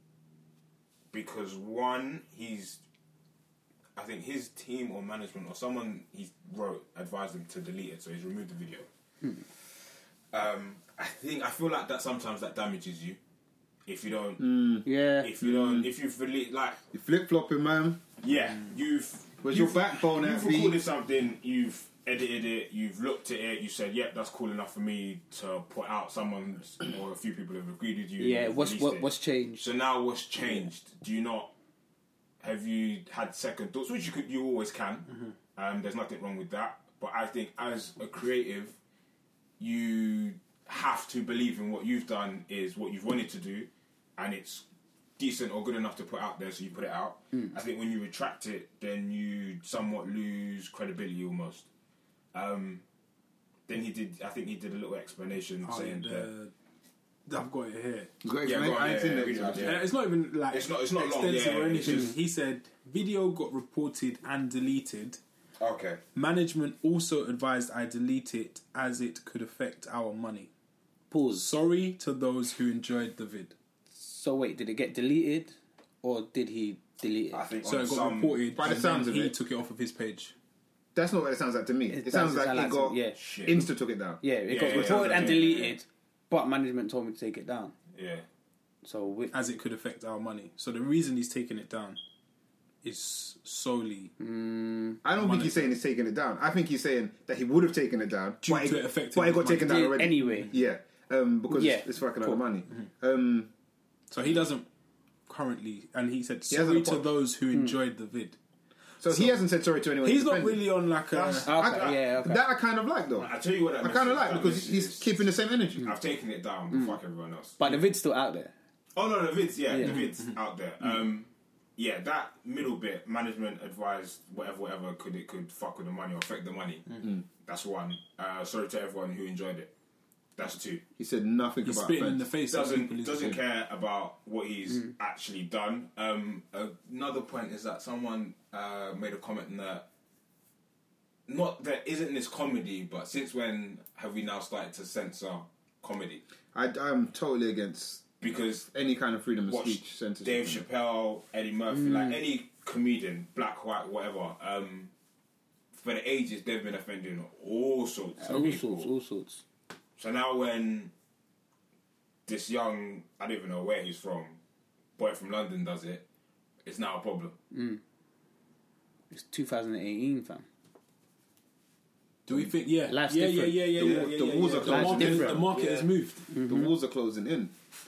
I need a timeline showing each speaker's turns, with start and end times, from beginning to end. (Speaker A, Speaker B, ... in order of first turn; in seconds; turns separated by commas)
Speaker A: 1.1-2.8, Speaker A: 4.0-8.9, Speaker A: 9.4-13.2, Speaker A: 13.9-16.8, Speaker B: 14.4-14.8, Speaker C: 14.8-15.3, Speaker B: 15.4-15.9, Speaker B: 16.9-18.0, Speaker A: 18.2-29.1, Speaker B: 19.4-20.8, Speaker C: 28.2-29.6, Speaker A: 29.6-31.5, Speaker A: 32.4-38.8, Speaker A: 39.6-44.6, Speaker A: 45.2-51.7, Speaker A: 52.3-52.8, Speaker A: 53.7-56.3, Speaker D: 55.6-56.5, Speaker D: 57.3-58.1, Speaker B: 58.2-59.8, Speaker A: 58.4-62.1, Speaker D: 59.6-65.2, Speaker A: 65.6-66.0, Speaker D: 66.1-70.5, Speaker C: 71.1-71.5, Speaker D: 71.4-73.5, Speaker C: 73.9-77.5, Speaker A: 77.3-78.5, Speaker D: 77.6-80.3, Speaker B: 78.5-79.4, Speaker B: 81.0-85.2, Speaker C: 81.9-83.2, Speaker A: 83.1-83.6, Speaker C: 84.2-87.7, Speaker A: 84.5-85.8, Speaker A: 87.9-88.2, Speaker C: 88.8-89.3, Speaker D: 89.3-92.0, Speaker D: 92.8-94.1, Speaker C: 94.2-95.0, Speaker B: 95.0-103.5, Speaker D: 95.2-95.7, Speaker D: 98.4-100.6, Speaker C: 99.6-100.5, Speaker C: 101.5-102.4, Speaker D: 104.1-104.7, Speaker D: 105.3-108.4, Speaker B: 106.5-107.1, Speaker C: 107.5-107.8, Speaker B: 109.0-110.9, Speaker D: 109.0-109.4, Speaker D: 110.0-111.5, Speaker A: 111.1-112.0, Speaker C: 111.5-112.4, Speaker B: 111.5-115.9, Speaker A: 113.2-115.3, Speaker A: 115.8-117.6, Speaker C: 116.7-117.0, Speaker C: 117.6-118.5, Speaker A: 119.0-129.7, Speaker C: 119.7-120.0, Speaker D: 119.8-120.4, Speaker A: 130.4-130.8, Speaker B: 131.0-132.3, Speaker D: 131.6-133.4, Speaker A: 132.5-139.9, Speaker A: 141.3-146.2, Speaker B: 146.5-148.1, Speaker A: 148.2-148.7, Speaker B: 148.7-150.6, Speaker A: 149.5-154.9, Speaker C: 151.7-152.2, Speaker A: 155.7-158.9, Speaker C: 158.2-159.4, Speaker A: 160.0-160.9, Speaker A: 162.3-164.4, Speaker A: 165.0-166.1, Speaker A: 166.6-167.4, Speaker C: 167.5-167.8, Speaker C: 169.1-170.5, Speaker D: 172.3-176.3, Speaker C: 172.9-174.0, Speaker B: 173.7-175.6, Speaker C: 174.6-175.6, Speaker C: 176.3-176.7, Speaker B: 176.4-177.5